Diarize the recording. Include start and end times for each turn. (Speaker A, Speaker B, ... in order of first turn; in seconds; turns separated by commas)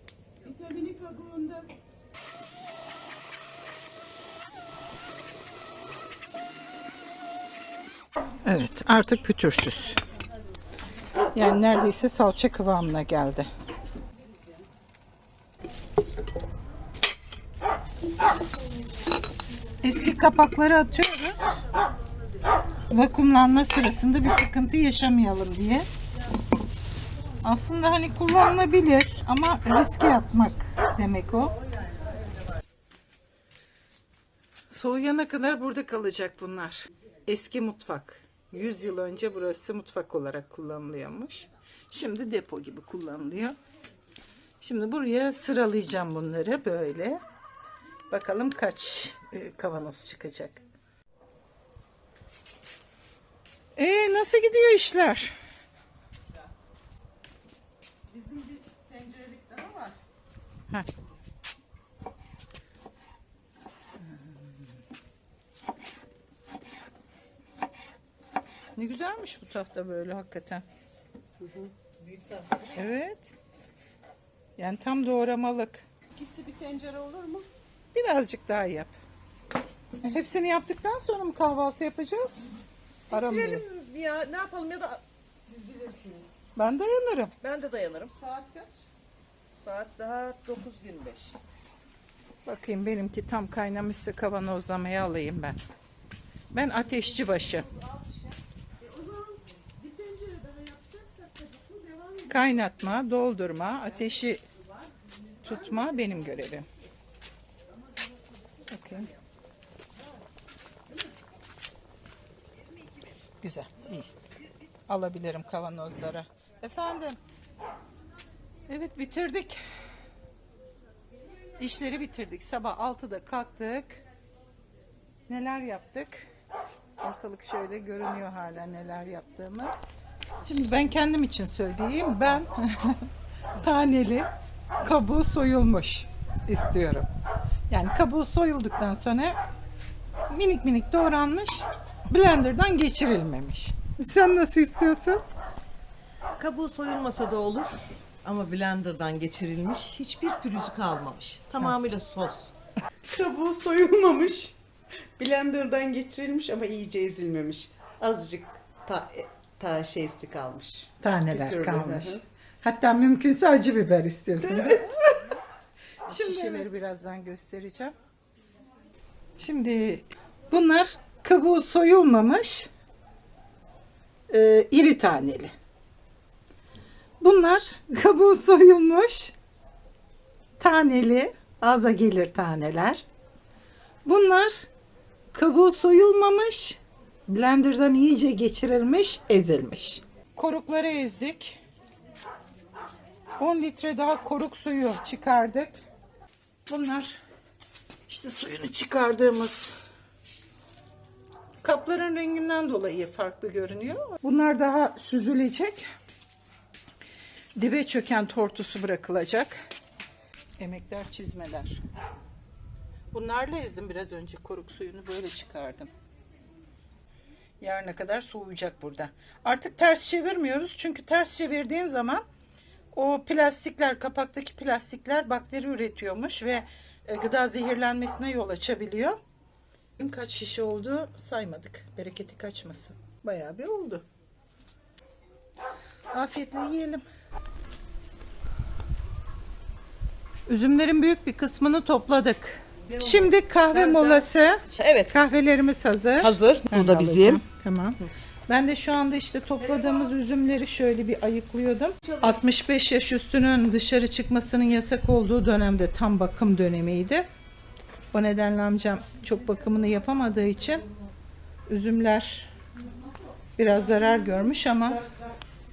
Speaker A: 0.4-1.7, Speaker B: 8.4-10.0, Speaker B: 11.3-13.5, Speaker B: 19.8-21.5, Speaker B: 22.9-25.9, Speaker B: 27.4-31.6, Speaker B: 34.7-43.5, Speaker B: 44.6-47.2, Speaker B: 48.1-50.6, Speaker B: 53.8-55.4, Speaker A: 58.1-59.9, Speaker B: 68.8-70.6, Speaker B: 72.7-73.3, Speaker B: 74.6-75.8, Speaker A: 76.2-77.5, Speaker B: 77.9-78.9, Speaker B: 80.0-82.5, Speaker B: 83.1-83.6, Speaker C: 83.1-85.0, Speaker A: 85.4-86.3, Speaker B: 86.5-87.3, Speaker C: 87.4-88.2, Speaker A: 88.2-88.8, Speaker C: 89.6-91.4, Speaker B: 92.4-95.6, Speaker B: 96.5-97.7, Speaker A: 98.8-102.3, Speaker B: 102.2-104.4, Speaker B: 105.4-106.7, Speaker B: 108.7-109.1, Speaker B: 113.4-114.1, Speaker B: 114.9-117.2, Speaker B: 118.7-119.6, Speaker B: 121.6-124.0, Speaker B: 125.3-126.3, Speaker B: 127.0-129.8, Speaker B: 130.4-134.3, Speaker B: 134.8-137.1, Speaker B: 137.7-139.3, Speaker B: 140.3-145.2, Speaker C: 146.4-152.5, Speaker A: 153.1-154.5, Speaker A: 155.2-157.9, Speaker C: 156.3-161.7, Speaker B: 161.0-165.4, Speaker A: 161.4-162.2, Speaker C: 164.4-165.2, Speaker B: 166.1-167.9, Speaker C: 166.1-166.6, Speaker B: 169.4-172.7, Speaker B: 174.3-175.5, Speaker B: 177.2-179.3, Speaker B: 180.6-183.0, Speaker B: 184.0-184.7, Speaker B: 185.3-191.6, Speaker B: 193.4-195.8, Speaker B: 196.7-197.2, Speaker B: 198.1-199.7, Speaker B: 201.6-205.8, Speaker B: 207.6-209.6, Speaker B: 210.6-211.8, Speaker B: 213.1-215.9, Speaker B: 217.6-222.2, Speaker B: 222.9-229.2, Speaker B: 230.0-234.0, Speaker B: 236.1-237.0, Speaker B: 240.5-257.3, Speaker C: 243.1-245.1, Speaker C: 246.2-247.4, Speaker C: 252.1-252.3, Speaker B: 258.1-260.9, Speaker B: 261.7-262.5, Speaker B: 263.6-265.1